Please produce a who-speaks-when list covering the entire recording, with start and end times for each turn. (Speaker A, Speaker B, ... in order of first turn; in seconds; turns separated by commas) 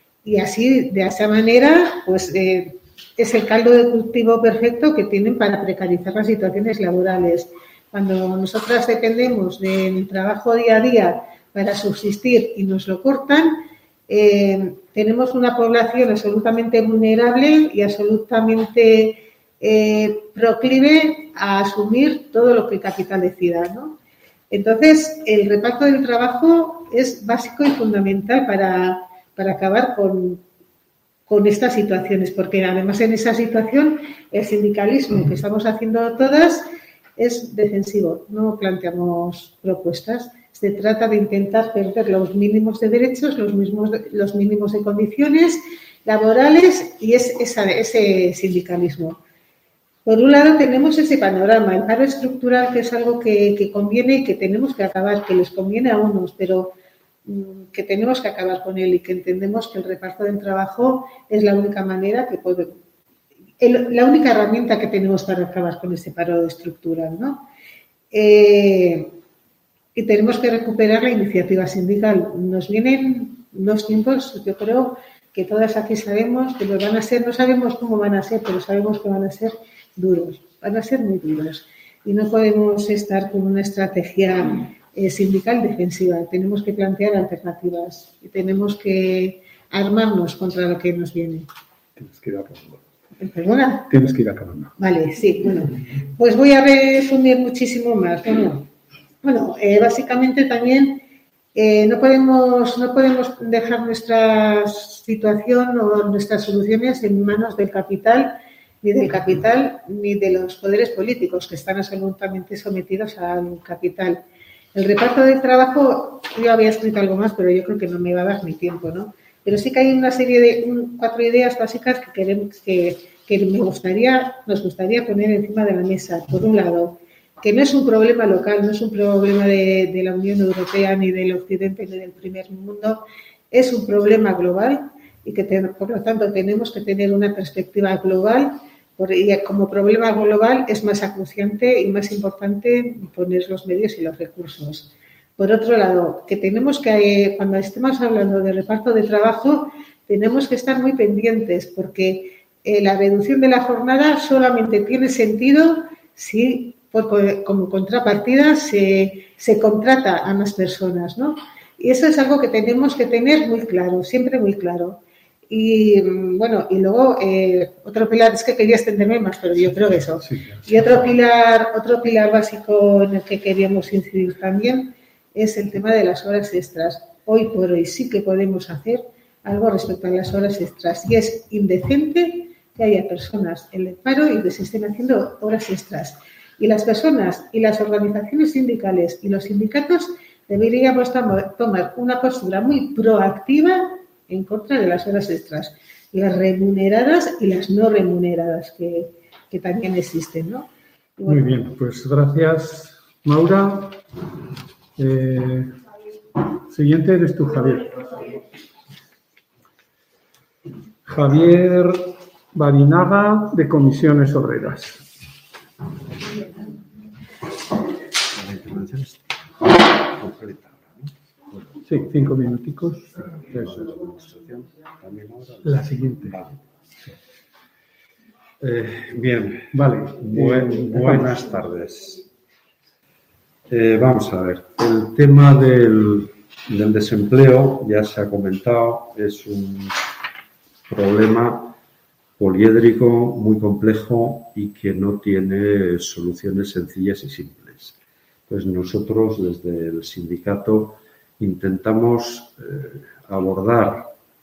Speaker A: 0.2-24.0, Speaker A: 24.5-30.4, Speaker A: 31.3-36.7, Speaker A: 37.2-49.2, Speaker A: 50.0-56.8, Speaker A: 57.3-62.7, Speaker A: 63.6-67.5, Speaker A: 68.1-69.2, Speaker A: 70.0-91.5, Speaker B: 92.0-92.8, Speaker A: 93.2-94.0, Speaker B: 93.9-94.7, Speaker A: 94.8-98.7, Speaker A: 99.2-101.0, Speaker A: 101.5-114.2, Speaker A: 114.8-200.7, Speaker B: 201.3-204.0, Speaker B: 205.0-205.7, Speaker B: 206.7-208.1, Speaker B: 211.1-215.0, Speaker C: 218.3-219.4, Speaker C: 220.0-222.5, Speaker B: 221.9-223.7, Speaker C: 223.4-226.7, Speaker B: 225.7-226.3, Speaker C: 228.6-232.2, Speaker B: 229.7-231.4, Speaker C: 233.7-240.0, Speaker C: 240.9-241.8, Speaker C: 242.4-248.0, Speaker C: 248.5-254.1